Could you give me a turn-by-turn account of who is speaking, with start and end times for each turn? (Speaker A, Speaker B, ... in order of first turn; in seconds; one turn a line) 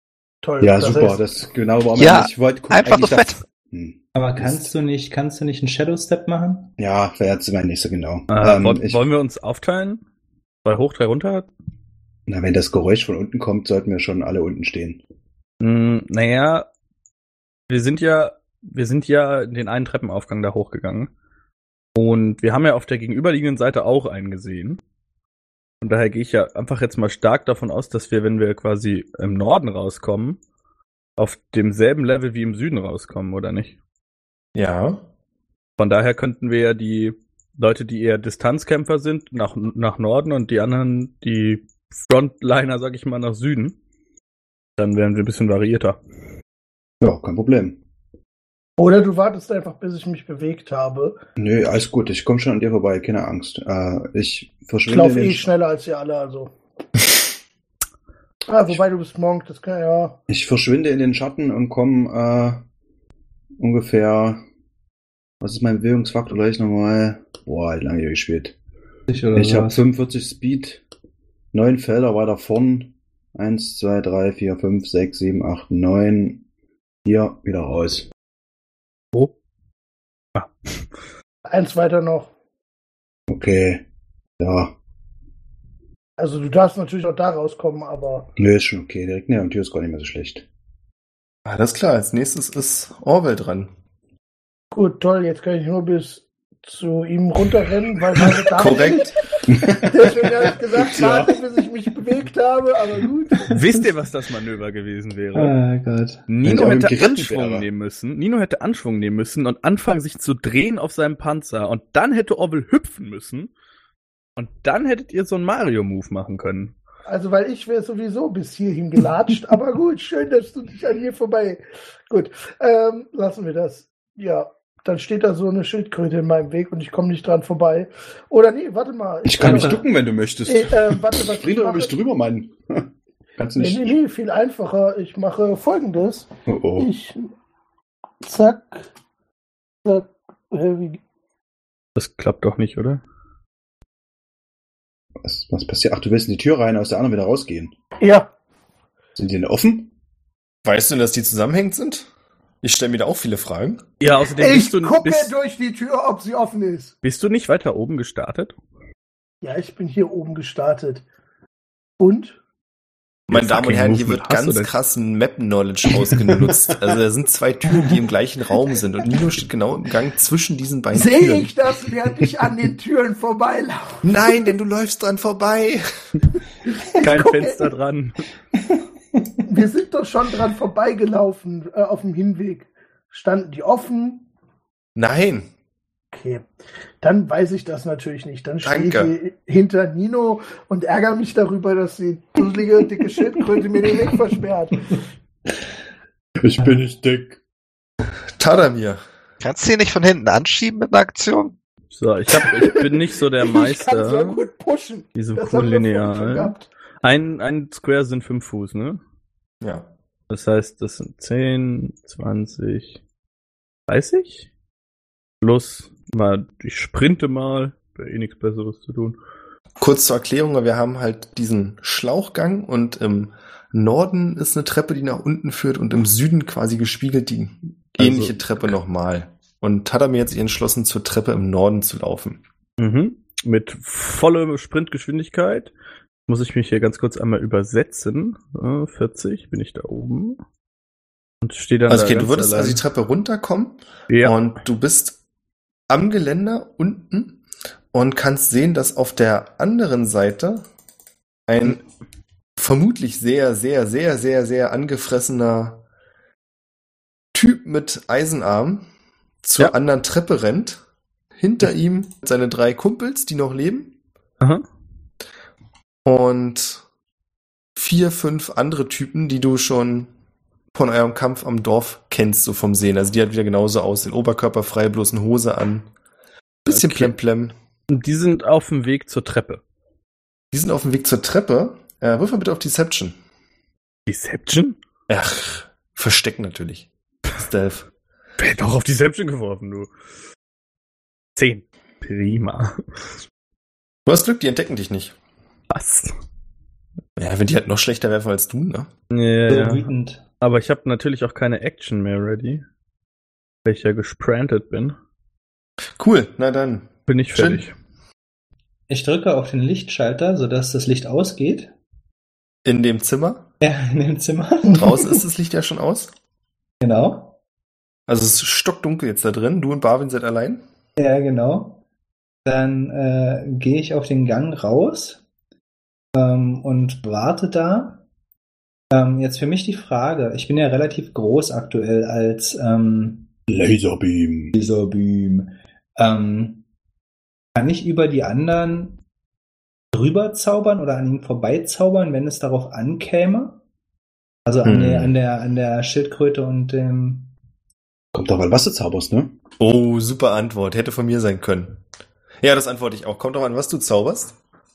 Speaker A: 0.4-1.2
Speaker B: 0.6-4.7
Speaker C: 1.9-3.4
Speaker D: 4.1-6.7
Speaker B: 6.8-9.0
Speaker E: 8.3-10.0
Speaker E: 10.6-11.5
Speaker B: 12.3-15.0
Speaker E: 15.6-16.7
Speaker E: 17.7-21.1
Speaker E: 22.0-24.8
Speaker E: 25.8-30.4
Speaker E: 31.2-33.8
Speaker F: 34.5-35.0
Speaker E: 35.8-43.8
Speaker E: 44.8-46.0
Speaker B: 47.0-47.8
Speaker A: 48.8-51.2
Speaker B: 51.4-55.5
Speaker A: 54.9-56.5
Speaker A: 58.5-60.2
Speaker B: 60.3-62.6
Speaker B: 63.6-64.4
Speaker B: 65.4-68.5
Speaker D: 69.1-69.8
Speaker B: 69.3-70.8
Speaker B: 71.5-76.4
Speaker B: 77.0-78.1
Speaker E: 80.3-80.8
Speaker A: 81.5-82.3
Speaker B: 83.3-83.8
Speaker B: 84.4-84.7
Speaker A: 86.2-88.3
Speaker B: 88.4-90.4
Speaker F: 91.4-93.7
Speaker A: 94.7-99.1
Speaker F: 98.5-99.1
Speaker B: 99.5-101.4
Speaker A: 99.8-103.6
Speaker E: 103.5-105.5
Speaker D: 105.3-106.2
Speaker E: 106.3-113.5
Speaker B: 106.4-107.7
Speaker E: 114.4-116.7
Speaker A: 117.1-129.9
Speaker B: 129.2-133.9
Speaker D: 129.4-129.8
Speaker A: 130.5-131.9
Speaker A: 133.6-137.3
Speaker B: 136.5-136.9
Speaker A: 138.2-138.9
Speaker A: 139.8-141.0
Speaker E: 141.9-143.0
Speaker B: 145.2-147.7
Speaker A: 148.0-148.3
Speaker B: 149.2-149.9
Speaker F: 150.6-152.1
Speaker F: 152.6-153.8
Speaker E: 154.0-155.3
Speaker A: 154.4-156.9
Speaker E: 157.0-158.5
Speaker A: 159.4-161.0
Speaker A: 162.0-162.4
Speaker F: 163.3-171.5
Speaker E: 163.3-164.7
Speaker A: 170.9-174.3
Speaker F: 174.0-175.9
Speaker A: 176.8-177.7
Speaker E: 177.0-178.2
Speaker A: 179.4-184.3
Speaker F: 184.9-185.5
Speaker A: 186.1-186.5
Speaker A: 187.0-195.0
Speaker F: 188.6-189.1
Speaker B: 196.4-197.4
Speaker F: 198.4-199.0
Speaker C: 199.4-201.6
Speaker E: 201.9-204.4
Speaker A: 202.4-202.8
Speaker A: 203.4-206.7
Speaker E: 205.2-209.0
Speaker F: 209.6-209.9
Speaker E: 210.3-213.0
Speaker E: 213.9-214.5
Speaker E: 215.4-219.2
Speaker F: 219.8-232.4
Speaker E: 228.0-228.7
Speaker E: 232.8-235.7
Speaker E: 236.3-240.4
Speaker E: 241.4-242.8
Speaker F: 241.9-245.2
Speaker E: 244.1-244.4
Speaker F: 245.9-247.4
Speaker F: 247.9-250.6
Speaker F: 251.5-251.8
Speaker F: 252.6-255.8
Speaker F: 257.3-258.9
Speaker F: 259.4-260.8
Speaker F: 261.4-263.9
Speaker F: 266.0-266.8
Speaker F: 267.8-270.1
Speaker F: 270.7-275.9
Speaker F: 276.6-277.5
Speaker E: 276.7-277.1
Speaker E: 277.9-279.6
Speaker F: 280.5-283.1
Speaker E: 284.1-284.8
Speaker F: 285.1-287.9
Speaker E: 288.4-289.9
Speaker E: 291.4-292.8
Speaker F: 294.1-295.1
Speaker E: 295.7-296.1
Speaker F: 297.2-298.9
Speaker E: 299.1-302.6
Speaker D: 299.5-300.2
Speaker E: 303.6-304.9
Speaker F: 306.0-307.6
Speaker E: 307.1-307.7
Speaker D: 308.9-311.7
Speaker F: 312.6-313.4
Speaker D: 313.6-315.1
Speaker F: 314.8-316.1
Speaker D: 316.8-317.4
Speaker F: 318.1-320.6
Speaker D: 321.0-321.8
Speaker D: 322.4-325.2
Speaker D: 326.1-328.0
Speaker D: 328.9-333.3
Speaker B: 333.5-334.5
Speaker D: 334.5-336.6
Speaker D: 337.5-339.0
Speaker D: 339.9-343.6
Speaker D: 344.4-347.3
Speaker F: 344.6-345.1
Speaker B: 348.1-349.3
Speaker F: 349.6-351.8
Speaker F: 352.4-354.4